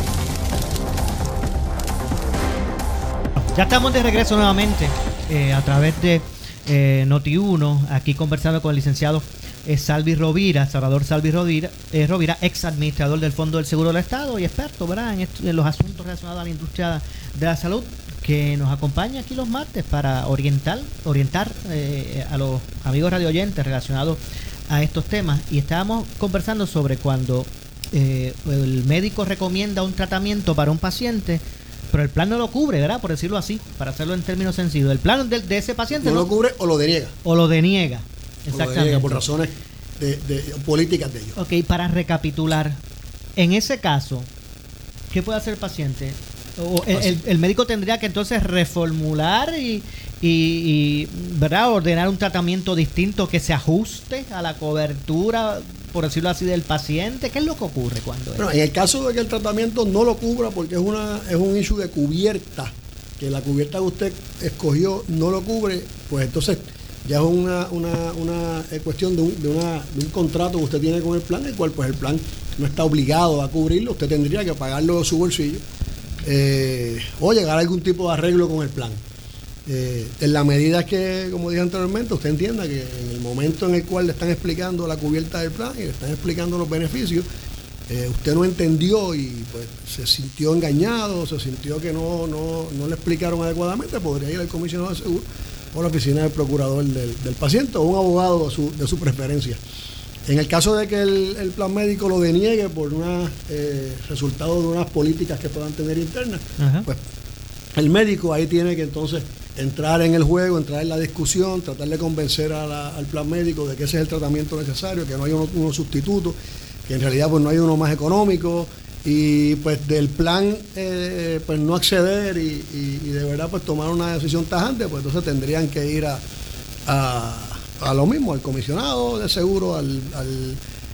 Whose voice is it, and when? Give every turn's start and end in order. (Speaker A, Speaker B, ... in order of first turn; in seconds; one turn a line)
Speaker A: 3.4-36.3
Speaker B: 35.9-37.1
Speaker A: 37.2-39.3
Speaker B: 38.5-41.4
Speaker A: 41.4-42.8
Speaker A: 43.4-44.3
Speaker A: 45.1-58.5
Speaker B: 46.9-47.2
Speaker B: 58.4-75.6
Speaker B: 76.2-79.0
Speaker B: 79.7-87.3
Speaker B: 87.9-99.6
Speaker B: 100.3-107.0
Speaker A: 106.6-106.9
Speaker B: 107.8-126.2
Speaker B: 126.9-130.6